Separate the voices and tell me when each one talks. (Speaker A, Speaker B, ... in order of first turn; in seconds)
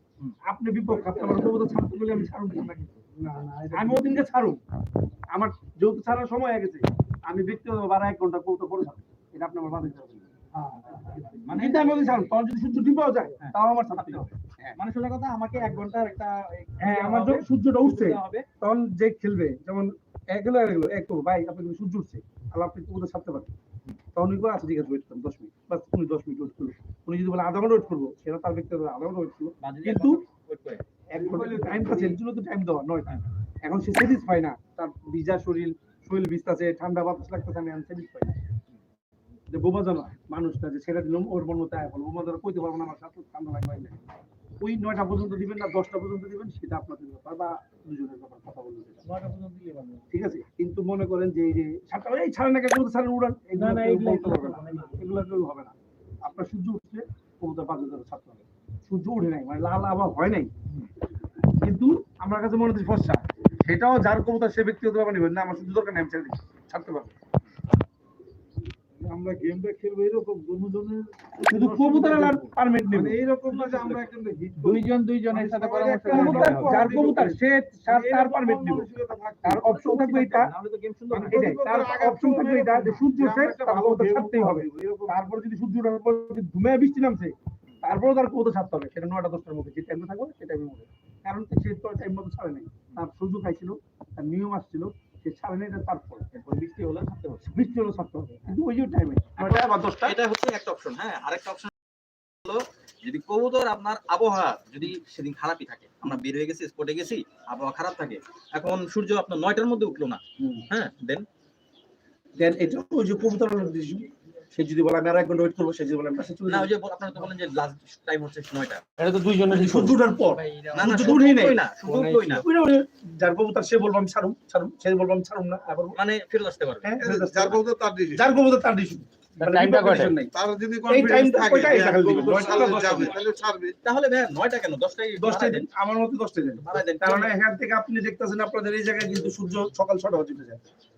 Speaker A: 0.4-3.0, 3.7-4.6, 5.3-10.3, 11.5-14.8, 16.8-23.5, 24.1-30.2, 31.1-38.4, 39.5-44.0, 44.6-49.0, 50.1-60.5, 61.6-67.1, 71.5-73.2, 76.1-78.9, 79.4-80.5, 81.2-96.3, 97.5-100.2, 110.4-110.6, 112.4-116.7, 119.4-121.6, 122.3-126.0, 126.8-130.3, 130.8-133.1, 135.2-140.6
Speaker B: 3.2-4.0, 49.1-50.0, 53.6-54.9
Speaker C: 11.4-12.3, 13.4-14.2, 14.8-18.4, 29.6-30.8, 79.9-81.5, 96.3-97.5, 99.3-101.7, 102.4-111.2, 116.5-118.8, 120.7-122.4, 126.0-126.9, 132.3-133.2, 133.8-135.7, 136.6-137.3
Speaker D: 31.4-32.1, 69.0-74.8, 75.5-77.3, 77.8-80.0, 81.1-85.2, 127.0-128.2, 130.3-133.8
Speaker E: 74.6-77.1, 129.4-130.2